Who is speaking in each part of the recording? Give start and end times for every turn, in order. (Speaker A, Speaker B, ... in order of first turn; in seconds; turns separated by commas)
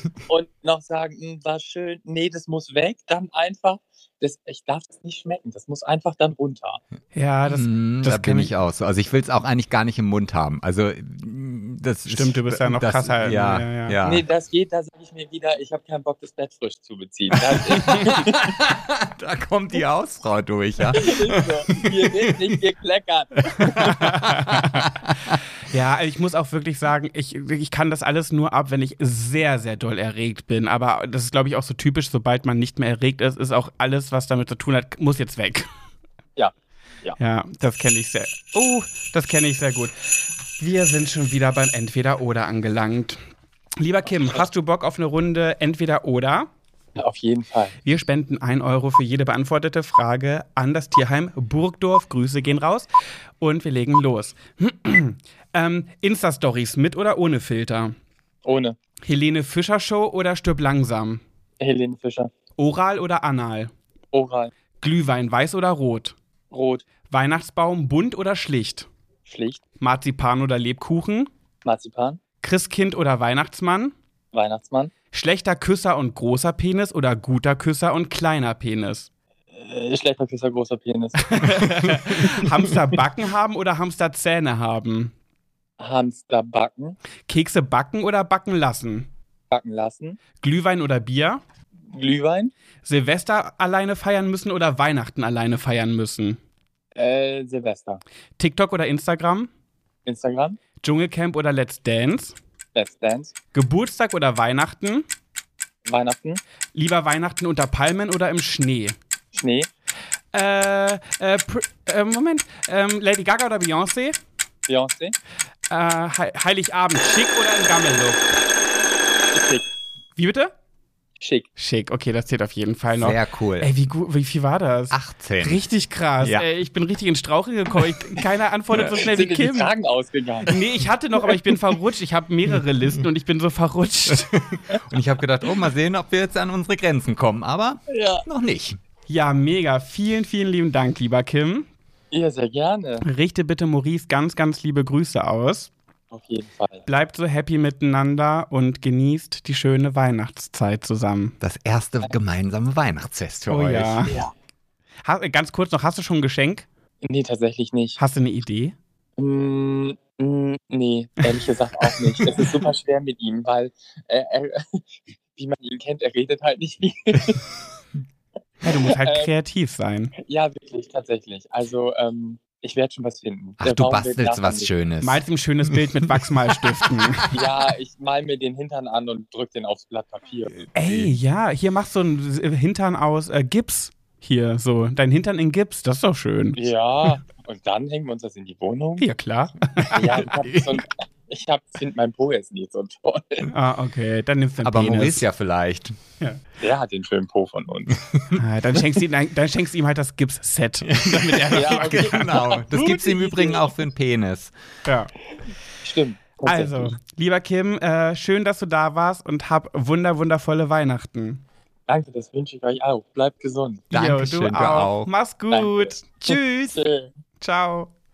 Speaker A: 0.2-6.8, Speaker B: 7.1-8.5, Speaker C: 7.5-14.2, Speaker B: 12.1-14.0, Speaker A: 14.0-18.5, Speaker C: 18.0-21.9, Speaker A: 21.0-23.9, Speaker B: 23.8-24.9, Speaker B: 25.6-35.7, Speaker B: 37.2-39.9, Speaker B: 40.6-43.2, Speaker B: 43.8-46.5, Speaker A: 47.0-47.8, Speaker B: 47.8-52.9, Speaker B: 53.4-57.9, Speaker A: 58.5-58.8, Speaker B: 59.0-61.2, Speaker A: 61.6-62.3, Speaker B: 62.6-63.7, Speaker A: 64.1-64.5, Speaker B: 64.8-66.2, Speaker A: 66.5-66.8, Speaker B: 67.1-68.9, Speaker A: 69.3-69.6, Speaker B: 69.8-71.3, Speaker A: 71.6-72.2, Speaker B: 72.4-73.9, Speaker A: 74.3-74.9, Speaker B: 75.1-79.1, Speaker A: 79.5-81.4, Speaker B: 81.2-85.1, Speaker A: 85.8-87.0, Speaker B: 87.3-89.1, Speaker A: 89.5-90.2, Speaker B: 90.4-91.4, Speaker A: 91.9-92.5, Speaker B: 92.8-96.4, Speaker A: 97.0-98.0, Speaker B: 98.4-99.5, Speaker A: 100.0-100.6, Speaker B: 100.8-102.4, Speaker A: 102.7-103.3, Speaker B: 103.5-105.1, Speaker A: 105.8-106.4, Speaker B: 106.7-109.0, Speaker A: 109.3-109.7, Speaker B: 110.3-114.2, Speaker A: 114.7-115.2, Speaker B: 115.7-118.3, Speaker A: 119.3-119.7, Speaker B: 120.2-120.5, Speaker A: 121.2-121.5, Speaker B: 121.6-129.7, Speaker C: 122.9-123.7, Speaker C: 124.9-125.7, Speaker C: 126.2-126.5, Speaker A: 128.8-130.6, Speaker B: 130.5-134.4, Speaker C: 134.5-138.8, Speaker A: 137.9-138.2, Speaker B: 139.1-141.7, Speaker A: 142.1-143.1, Speaker B: 143.0-145.7, Speaker A: 146.1-146.8, Speaker B: 146.9-151.4, Speaker C: 151.4-154.1, Speaker B: 153.5-154.2, Speaker A: 154.1-154.3, Speaker B: 155.1-156.7, Speaker A: 157.0-158.0, Speaker B: 158.0-158.8, Speaker A: 159.2-167.4, Speaker B: 168.6-170.1, Speaker A: 169.0-169.3, Speaker A: 170.2-174.7, Speaker C: 173.6-176.2, Speaker B: 175.0-177.3, Speaker A: 177.3-180.7, Speaker B: 180.8-186.7, Speaker A: 186.6-189.1, Speaker B: 189.0-190.2, Speaker A: 189.9-193.5, Speaker B: 193.5-195.2, Speaker C: 194.6-196.0, Speaker A: 196.6-198.0, Speaker B: 198.3-202.6, Speaker C: 200.8-204.5, Speaker A: 201.5-203.7, Speaker B: 204.8-205.1, Speaker A: 205.8-207.0, Speaker B: 206.4-211.4, Speaker A: 211.9-213.8, Speaker B: 213.9-216.8, Speaker C: 213.9-215.1, Speaker A: 215.5-217.1, Speaker B: 217.4-217.9